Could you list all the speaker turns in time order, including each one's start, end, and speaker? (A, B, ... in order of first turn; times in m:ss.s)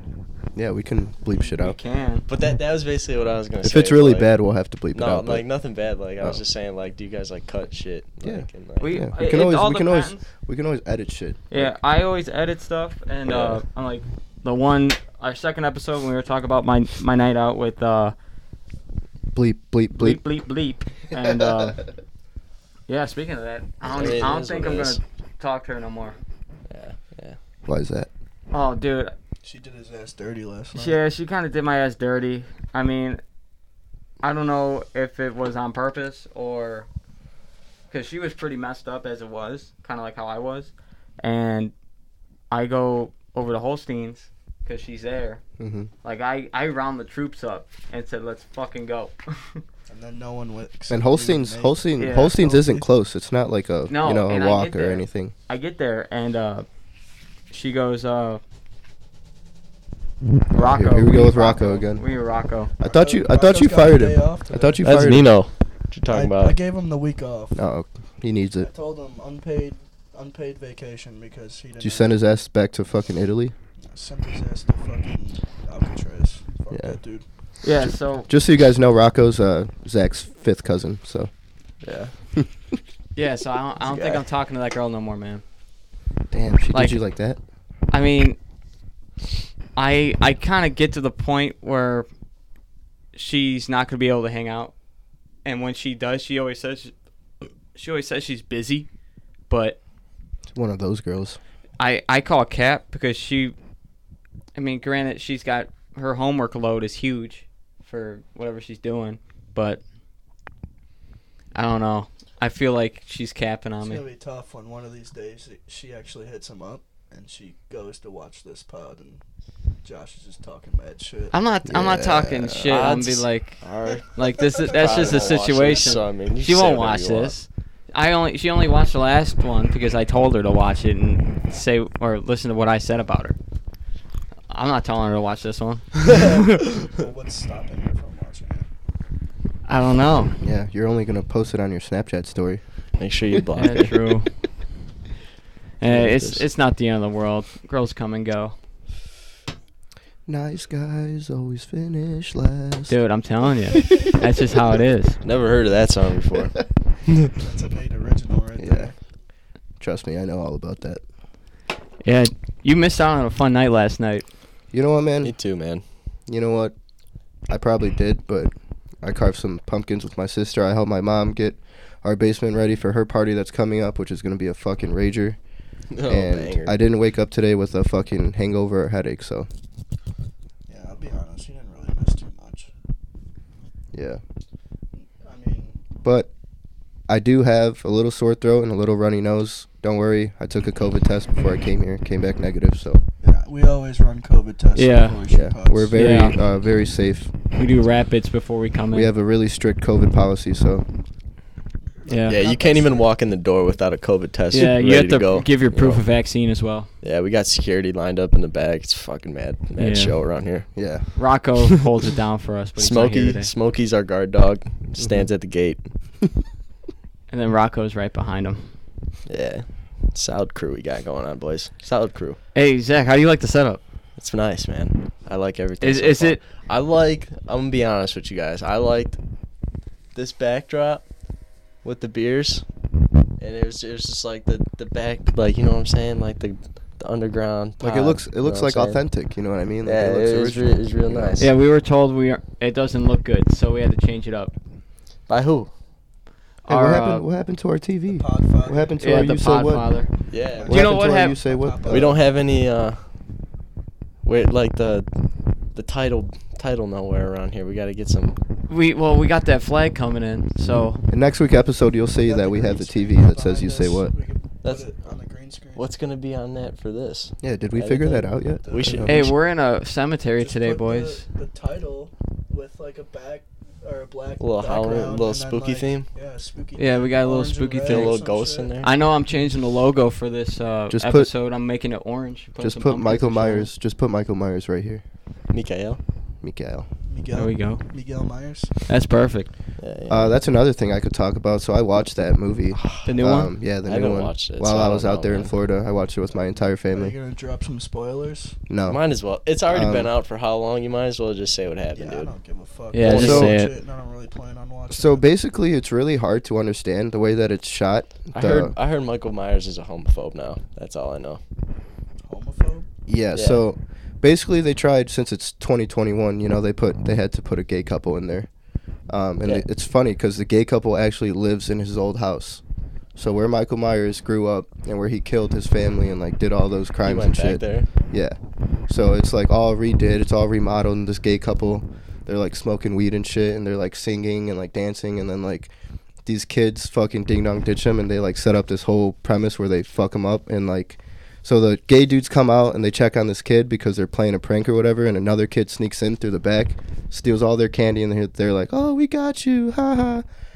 0:00.5-0:01.8 A
0:01.6-0:02.3 B
0:01.8-0:02.1 C
0:02.3-0:04.3 D
0:03.6-0:05.4 A
0:04.9-0:08.9 D
0:08.2-0:11.7 A
0:08.8-0:10.2 B
0:11.5-0:18.1 B
0:13.2-0:13.6 D
0:19.3-0:20.2 A
0:19.9-0:21.8 B
0:22.9-0:26.2 B
0:23.9-0:25.0 D
0:26.7-0:27.4 D
0:27.6-0:28.1 A
0:28.5-0:29.1 B
0:29.4-0:31.0 C
0:30.7-0:33.2 B
0:34.2-0:36.9 B
0:37.9-0:41.7 B
0:42.5-0:45.4 B
0:45.6-0:45.9 A
0:46.0-0:49.6 B
0:49.9-0:52.9 C
0:50.9-0:55.3 A
0:52.0-0:52.3 B
0:53.9-0:56.6 B
0:57.5-0:58.4 B
1:00.5-1:02.0 A
1:00.5-1:02.7 B
1:02.8-1:05.3 A
1:02.8-1:05.1 C
1:04.8-1:06.6 D
1:06.1-1:07.6 C
1:07.5-1:08.7 A
1:08.6-1:12.2 C
1:11.8-1:13.5 A
1:13.8-1:17.2 C
1:16.7-1:17.0 A
1:17.6-1:18.3 B
1:18.3-1:21.3 A
1:21.8-1:22.1 D
1:22.4-1:22.8 A
1:23.2-1:25.4 B
1:23.8-1:24.2 D
1:26.3-1:27.4 A
1:26.7-1:27.0 B
1:27.9-1:28.4 B
1:29.8-1:32.1 B
1:33.1-1:34.7 B
1:35.4-1:36.9 B
1:37.7-1:38.9 B
1:39.5-1:39.8 B
1:40.5-1:41.4 A
1:41.8-1:43.6 B
1:44.5-1:49.8 B
1:51.5-1:54.0 B
1:53.8-1:59.2 C
1:59.8-2:01.4 C
2:01.3-2:13.4 B
2:01.6-2:02.8 A
2:02.6-2:07.4 D
2:04.6-2:05.4 C
2:14.5-2:16.4 B
2:16.1-2:18.7 C
2:19.6-2:20.4 B
2:20.4-2:22.6 A
2:23.0-2:24.0 D
2:23.6-2:24.4 B
2:25.8-2:28.6 B
2:25.8-2:26.4 D
2:30.2-2:32.9 A
2:32.9-2:35.2 B
2:33.8-2:34.0 A
2:35.2-2:37.3 D
2:37.4-2:39.0 C
2:38.6-2:38.9 A
2:39.8-2:41.0 A
2:42.0-2:44.2 B
2:44.7-2:45.4 A
2:45.2-2:45.8 D
2:46.3-2:46.7 A
2:47.5-2:55.4 A
2:55.9-2:56.8 D
2:56.0-2:59.5 A
3:00.7-3:02.7 C
3:03.9-3:04.2 A
3:05.0-3:05.8 C
3:06.0-3:06.3 A
3:07.1-3:13.0 A
3:13.2-3:16.0 C
3:14.8-3:15.2 B
3:15.3-3:17.3 A
3:15.9-3:16.4 B
3:17.6-3:19.1 B
3:18.9-3:20.8 A
3:22.0-3:23.1 C
3:22.1-3:22.4 B
3:22.3-3:26.0 D
3:24.5-3:26.9 B
3:27.0-3:30.7 D
3:29.8-3:30.2 B
3:30.8-3:31.0 A
3:31.2-3:33.5 B
3:32.8-3:35.9 D
3:35.0-3:35.3 A
3:37.3-3:38.7 B
3:39.2-3:42.4 D
3:42.5-3:43.8 B
3:44.2-3:49.2 D
3:45.8-3:46.4 B
3:50.1-3:51.1 D
3:51.8-3:52.6 D
3:53.4-3:59.0 D
3:57.8-4:01.4 A
3:59.8-4:01.5 D
4:01.4-4:04.5 B
4:05.3-4:05.7 D
4:06.6-4:10.0 A
4:06.7-4:07.2 B
4:08.1-4:09.0 C
4:09.0-4:10.1 B
4:10.3-4:10.8 D
4:10.5-4:12.2 C
4:10.6-4:12.2 A
4:10.7-4:11.4 B
4:11.9-4:13.0 D
4:14.2-4:15.1 D
4:15.7-4:18.4 D
4:18.7-4:21.0 B
4:21.1-4:24.1 A
4:22.2-4:25.9 C
4:24.6-4:24.9 D
4:25.8-4:29.3 D
4:27.4-4:29.3 A
4:28.6-4:29.1 C
4:29.0-4:31.2 B
4:30.4-4:38.7 C
4:34.4-4:36.1 D
4:36.8-4:38.1 B
4:37.8-4:38.9 D
4:38.8-4:43.7 B
4:40.9-4:41.3 A
4:42.6-4:45.0 A
4:45.5-4:46.0 D
4:46.4-4:46.9 A
4:47.1-4:48.8 C
4:47.3-4:47.8 B
4:48.9-4:49.5 B
4:49.8-4:50.4 D
4:50.1-4:57.1 A
4:52.8-4:53.0 D
4:53.0-4:53.5 B
4:53.8-4:55.5 D
4:56.3-4:58.6 C
4:58.7-4:59.0 A
4:58.9-5:02.3 D
4:59.7-5:00.1 A
5:01.9-5:05.3 C
5:02.9-5:03.7 B
5:03.0-5:03.6 D
5:03.1-5:03.6 A
5:04.9-5:08.8 A
5:08.3-5:11.4 D
5:12.2-5:12.9 C
5:13.1-5:18.5 A
5:13.4-5:13.6 D
5:19.1-5:22.6 A
5:23.2-5:35.7 A
5:27.0-5:27.9 D
5:36.2-5:50.2 A